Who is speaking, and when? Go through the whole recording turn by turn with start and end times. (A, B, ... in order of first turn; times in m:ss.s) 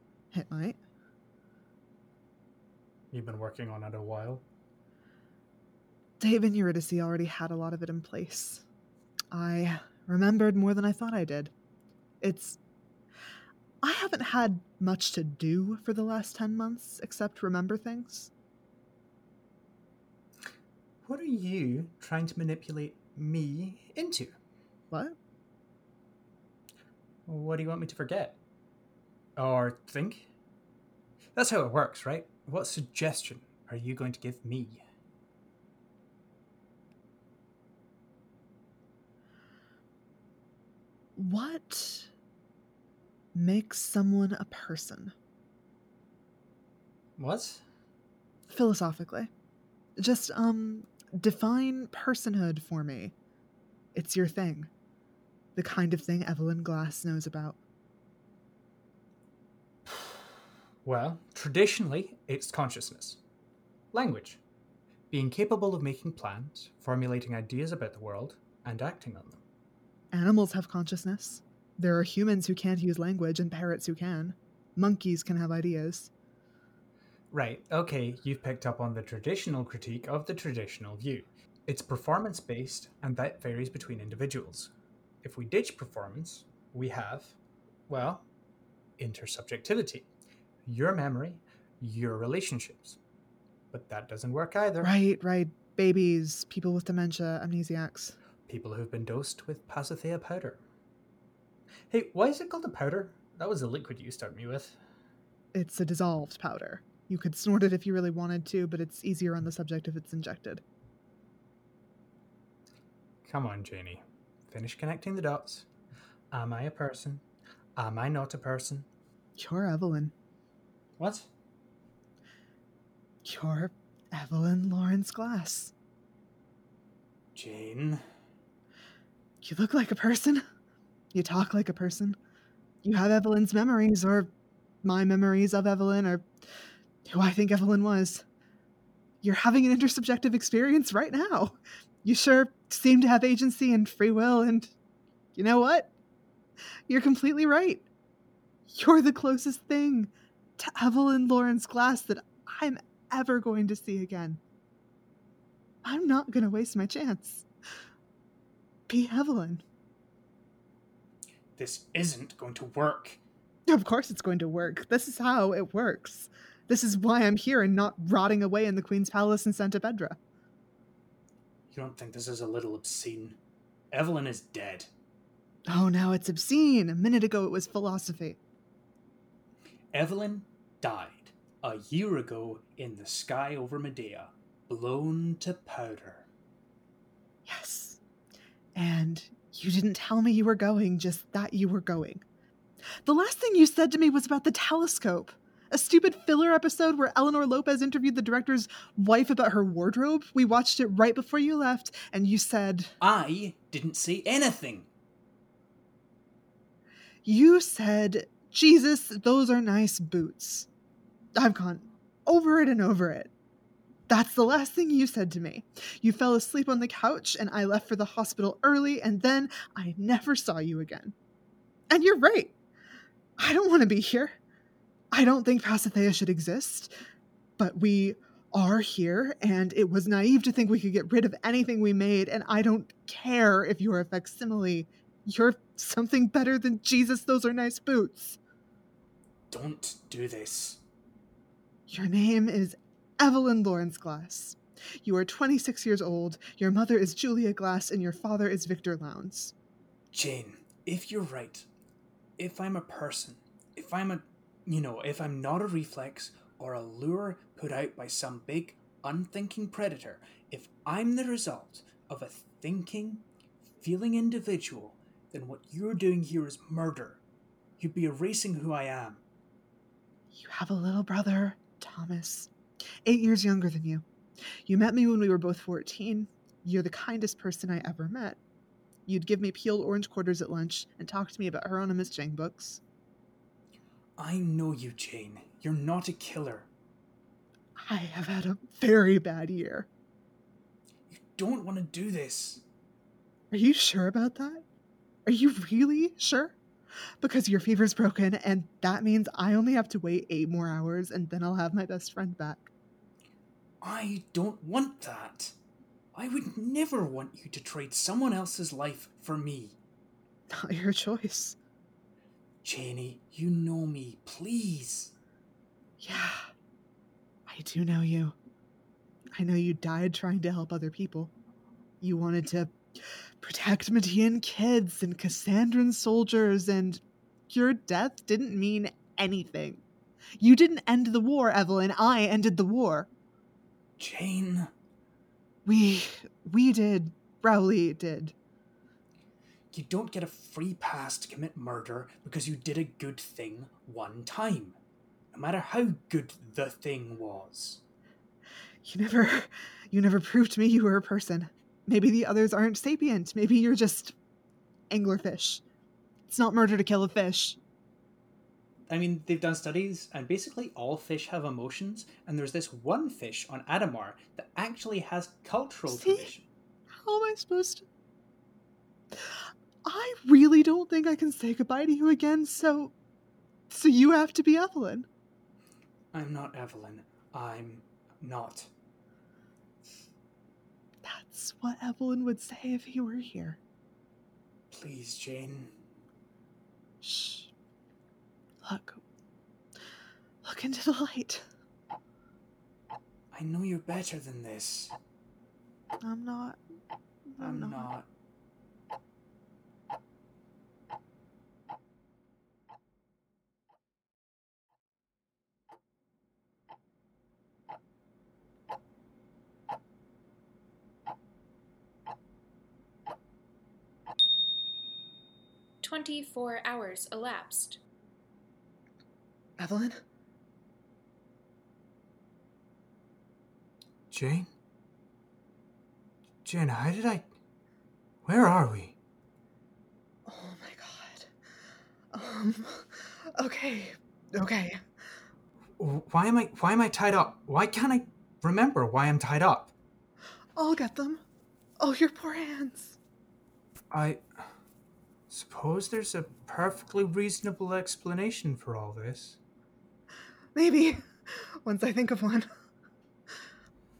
0:00.3-0:00.8 A
0:03.1-0:04.4 B
0:06.2-0:08.6 A
0:09.3-0:11.5 A
0:12.2-0:12.6 A
0:13.8-0:18.3 A
0:21.0-0:24.3 B
0:24.9-0:25.2 A
0:27.3-0:28.4 B
0:29.4-0:30.3 B
0:31.3-0:34.8 B
0:41.2-0:42.1 A
0:43.3-0:45.1 A
0:47.2-0:47.6 B
0:48.5-0:49.3 A
0:50.0-0:53.1 A
0:53.9-0:54.7 A
0:55.6-0:57.6 A
0:59.8-1:00.2 B
1:00.8-1:03.2 B
1:03.9-1:04.4 B
1:05.1-1:09.4 B
1:10.1-1:16.1 A
1:17.3-1:24.7 B
1:25.2-1:27.3 B
1:27.9-1:28.2 B
1:29.0-1:30.1 B
1:30.6-1:33.0 B
1:33.7-1:34.9 B
1:34.8-1:38.2 A
1:38.5-1:40.6 B
1:41.9-1:44.8 B
1:45.5-1:50.6 A
1:53.2-1:55.6 B
1:56.3-1:57.2 B
1:57.8-1:58.8 B
1:59.4-2:00.1 A
2:01.0-2:01.3 B
2:03.2-2:05.7 A
2:07.3-2:08.0 B
2:09.4-2:10.4 A
2:11.1-2:12.2 A
2:12.8-2:14.3 A
2:14.8-2:16.2 A
2:17.1-2:18.2 A
2:19.2-2:24.7 A
2:25.3-2:25.9 A
2:26.9-2:27.8 A
2:28.7-2:34.4 A
2:35.8-2:37.4 A
2:38.9-2:39.6 A
2:41.6-2:43.2 B
2:43.7-2:50.2 A
2:51.7-2:53.4 B
2:53.9-2:54.9 B
2:55.7-2:58.4 A
2:59.9-3:06.3 B
3:07.4-3:08.0 A
3:08.7-3:12.2 A
3:13.0-3:22.9 A
3:23.0-3:24.9 B
3:27.2-3:30.7 A
3:31.3-3:33.3 A
3:34.1-3:41.1 A
3:41.9-3:42.5 A
3:43.4-3:44.4 A
3:45.1-3:46.9 A
3:47.6-3:58.4 A
3:59.5-4:00.8 B
4:01.9-4:09.5 A
4:10.1-4:11.6 B
4:12.4-4:23.2 B
4:23.8-4:27.2 B
4:27.8-4:29.2 B
4:30.3-4:32.5 A
4:33.0-4:34.0 A
4:34.6-4:38.4 A
4:39.1-4:42.8 A
4:44.2-4:46.7 B
4:47.8-4:49.9 A
4:51.1-4:52.6 B
4:53.5-4:54.6 A
4:55.2-4:56.5 A
4:57.2-5:02.7 A
5:03.8-5:05.5 B
5:06.1-5:09.8 B
5:10.5-5:11.6 A
5:12.6-5:15.1 B
5:16.0-5:16.5 A
5:17.5-5:18.4 A
5:19.3-5:21.3 A
5:22.0-5:22.7 A
5:23.4-5:29.8 A
5:30.4-5:33.1 A
5:34.0-5:34.7 B
5:35.6-5:38.3 A
5:39.7-5:44.8 B
5:45.3-5:47.8 B
5:48.8-5:54.1 A
5:54.9-5:55.6 A
5:56.3-5:57.6 A
5:58.9-6:06.4 B
6:05.9-6:06.3 A
6:07.0-6:07.8 A
6:09.2-6:12.9 A
6:13.7-6:15.1 A
6:16.1-6:18.7 B
6:21.0-6:23.6 A
6:24.7-6:25.7 B
6:27.0-6:27.5 A
6:28.6-6:29.0 A
6:30.4-6:31.4 A
6:33.3-6:34.9 B
6:36.0-6:36.6 A
6:37.3-6:37.9 A
6:37.4-6:38.1 B
6:55.8-6:57.8 C
6:59.6-7:00.0 A
7:04.1-7:04.5 B
7:06.4-7:07.2 B
7:08.2-7:08.9 B
7:10.2-7:11.3 A
7:12.1-7:14.8 A
7:15.8-7:19.7 B
7:20.6-7:21.2 A
7:21.8-7:23.0 A
7:23.9-7:24.2 B
7:25.3-7:29.4 B
7:30.5-7:32.5 A